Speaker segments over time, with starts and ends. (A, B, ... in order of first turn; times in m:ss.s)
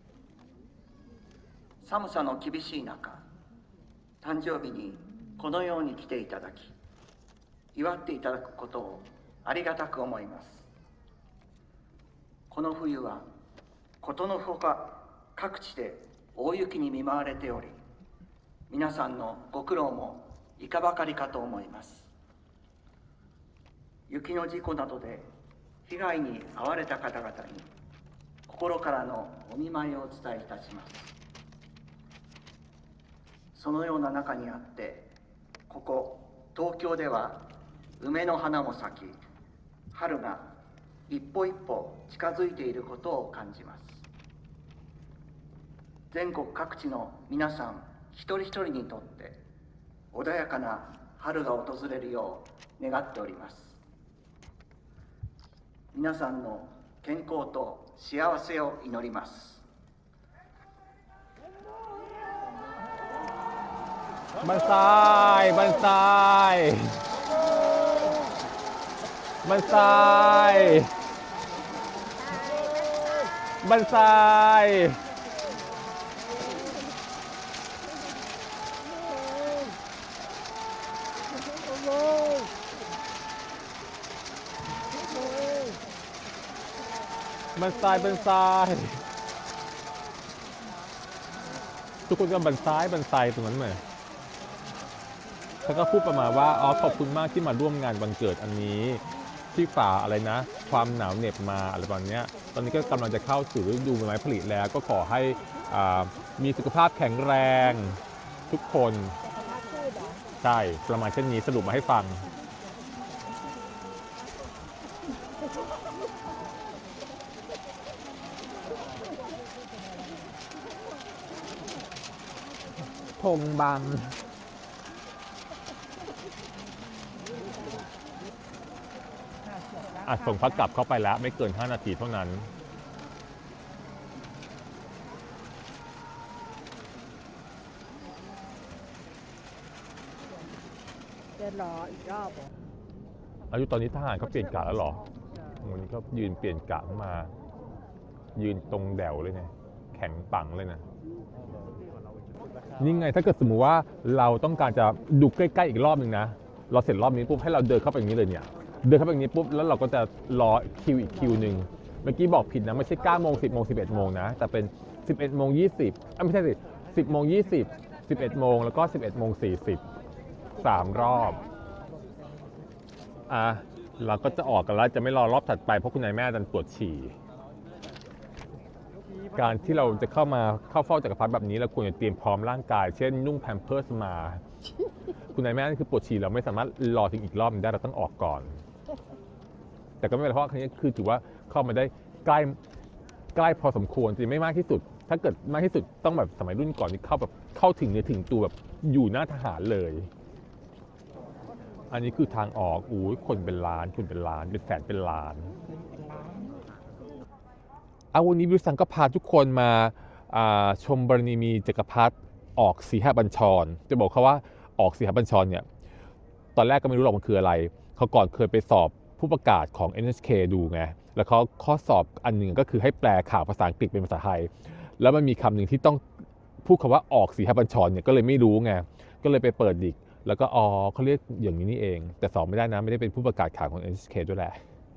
0:01.8-0:03.2 A
0:04.2-0:06.8 A
0:07.7-0:10.7 A
0:12.5-0:13.3 A
0:14.0-0:17.8 A
0:18.7-0:22.1 A
0:24.1-0:25.3 A
0:25.8-0:27.7 A
0:28.5-0:31.2 A
0:33.5-0:35.1 A
0:35.7-0:37.5 A
0:38.0-0:39.2 A
0:39.9-0:40.5 A
0:41.1-0:44.0 A
0:46.1-0:49.4 A
0:50.1-0:53.8 A
0:55.9-0:59.6 A
1:04.4-1:07.0 B
1:09.4-1:10.9 B
1:12.1-1:13.3 C
1:13.6-1:15.0 B
1:21.8-1:22.4 C
1:25.2-1:25.7 C
1:27.5-1:29.0 B
1:32.1-1:33.8 B
1:35.6-1:39.0 B
1:39.5-1:48.0 B
1:48.5-1:49.2 B
1:49.2-1:50.2 C
1:50.4-1:52.2 B
2:03.2-2:04.2 B
2:07.4-2:07.8 C
2:09.4-2:10.7 C
2:10.0-2:12.5 B
2:21.4-2:22.4 C
2:23.5-2:25.0 B
2:25.6-2:27.3 B
2:28.3-2:30.8 B
2:32.8-2:49.8 B
2:50.6-2:51.4 B
2:51.2-2:51.5 C
2:53.3-2:57.1 B
2:59.3-3:04.4 B
3:05.3-3:08.6 B
3:10.0-3:12.6 B
3:13.3-3:20.1 B
3:21.9-3:25.5 B
3:25.6-3:26.6 C
3:28.1-3:35.6 B
3:36.5-3:54.6 B